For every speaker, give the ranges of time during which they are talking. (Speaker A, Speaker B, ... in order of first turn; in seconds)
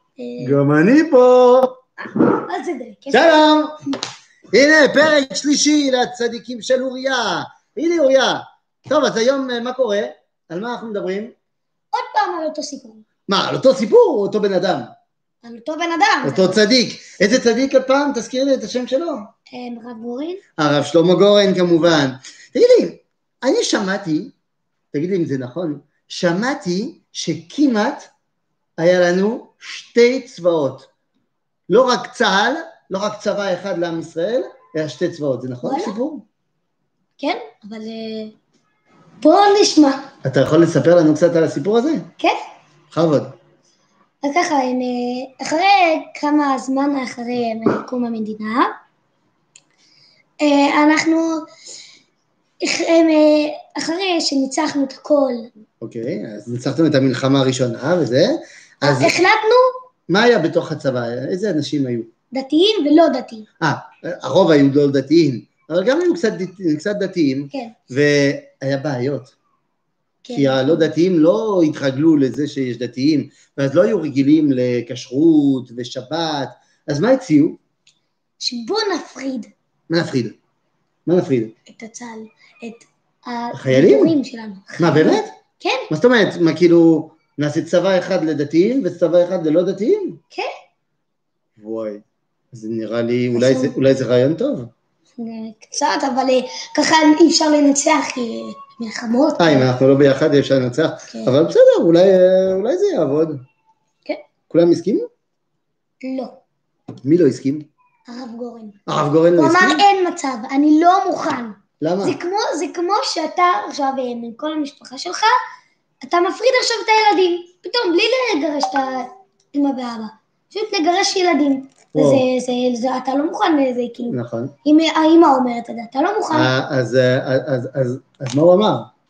Speaker A: 0.2-0.6, 2.3-3.4, 11.9-13.0, 15.4-16.6, 19.5-20.4, 35.6-36.0, 37.2-38.3, 39.2-40.1, 44.2-48.7, 50.4-51.4, 52.6-55.5, 58.8-59.7, 62.3-63.5, 70.2-70.9, 78.4-79.5, 81.7-85.9, 93.3-93.7, 95.2-99.7, 106.0-106.4, 108.1-108.8, 109.4-115.3, 116.0-126.5
Speaker B: 0.4-1.8, 3.1-3.8, 4.5-11.3, 13.3-14.9, 16.2-19.3, 20.6-24.3, 24.9-28.1, 28.8-30.9, 31.7-36.2, 40.2-42.1, 42.9-43.3, 55.8-59.1, 60.1-62.1, 63.6-69.3, 70.3-77.6, 79.9-80.3, 81.0-81.5, 83.5-84.1, 84.8-85.3, 85.9-90.2, 91.6-94.7, 99.4-103.4, 104.5-105.0, 107.0-107.7, 108.9-109.8, 111.8-112.2, 121.9-122.2, 124.1-124.5, 126.3-128.9